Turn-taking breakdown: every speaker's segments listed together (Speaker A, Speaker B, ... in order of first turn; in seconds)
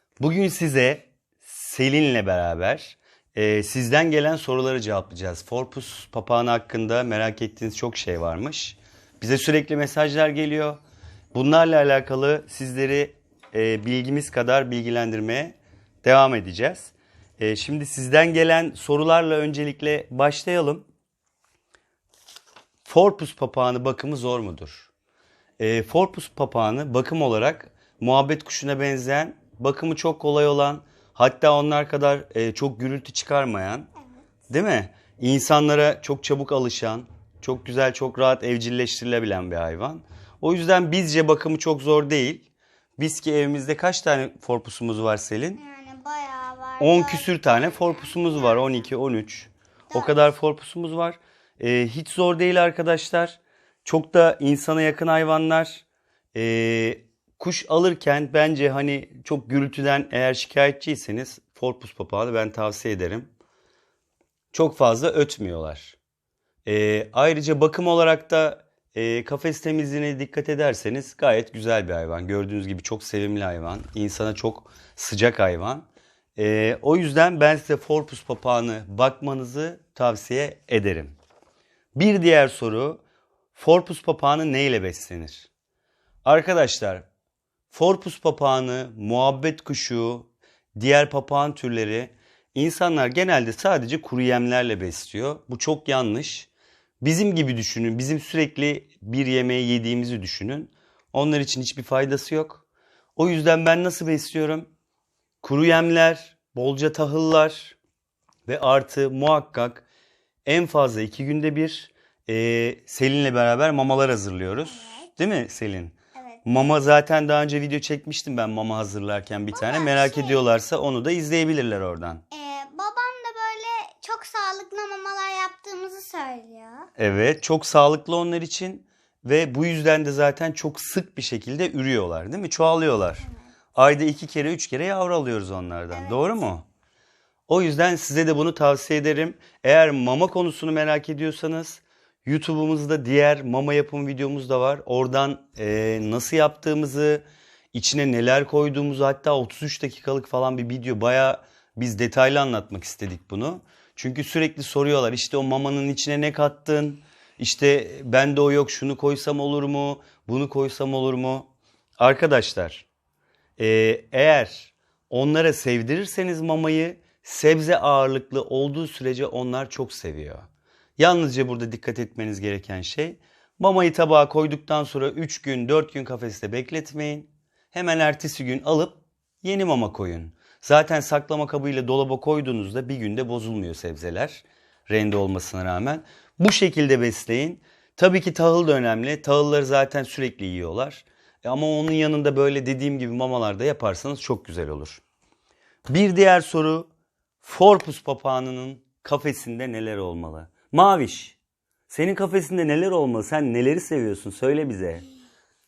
Speaker A: 0.2-10.8, 11.3-20.9, 22.9-24.9, 25.6-33.9, 34.5-42.5, 43.0-45.6, 46.8-63.3, 64.5-66.0, 66.7-81.2, 82.0-83.0, 83.5-85.5, 86.2-87.1, 87.7-96.5, 97.0-102.6, 103.2-104.7, 105.4-107.8, 108.5-109.8, 110.5-115.9, 116.5-122.2, 127.0-136.7, 137.5-162.9, 163.6-170.5, 171.0-195.0, 195.9-196.9, 197.4-201.4, 201.9-205.1
Speaker B: 34.0-34.2, 45.5-48.8, 49.9-50.3, 114.6-115.1, 116.1-116.5, 119.5-120.4, 122.3-126.9, 133.2-133.5, 135.9-136.3